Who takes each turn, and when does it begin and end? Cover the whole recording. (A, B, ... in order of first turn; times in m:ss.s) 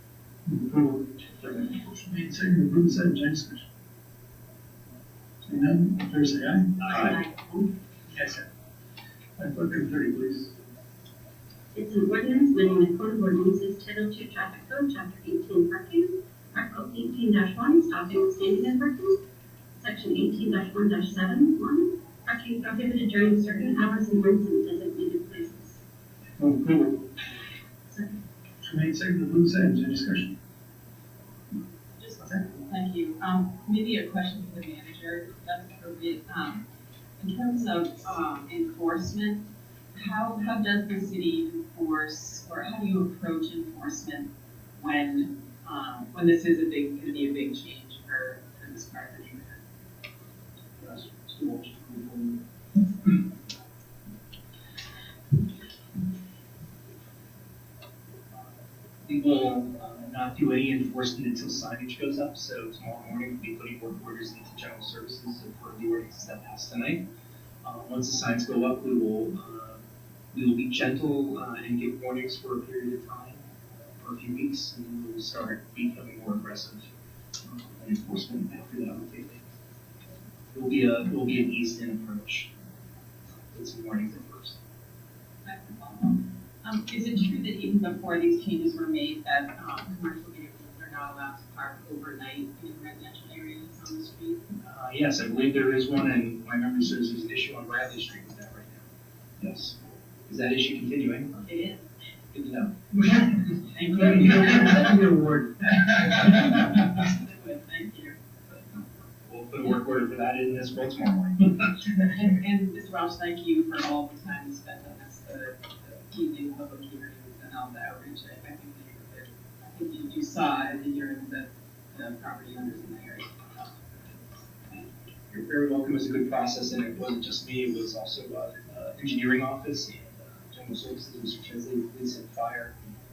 0:00.5-0:03.7 A
0:05.4-0:07.1 A
0:06.8-0:07.2 B
0:06.8-0:07.7 C
0:08.1-0:08.4 A
0:09.4-0:10.6 A
0:11.7-0:19.2 D
0:19.8-0:25.8 D
0:26.4-0:27.0 A
0:28.6-0:30.4 A
0:32.0-0:36.6 C
0:37.2-0:49.6 C
0:50.8-0:52.4 A
0:59.0-1:07.0 B
1:07.6-1:09.8 B
1:10.3-1:13.5 B
1:14.0-1:16.9 B
1:17.4-1:19.5 B
1:20.5-1:22.5 B
1:23.5-1:24.6 B
1:25.4-1:34.5 C
1:34.6-1:38.9 B
1:39.4-1:41.4 B
1:41.4-1:41.8 C
1:42.3-1:46.2 B
1:43.7-1:45.0 C
1:46.3-1:48.6 C
1:49.2-1:52.1 B
1:52.1-2:04.9 C
2:05.3-2:12.8 B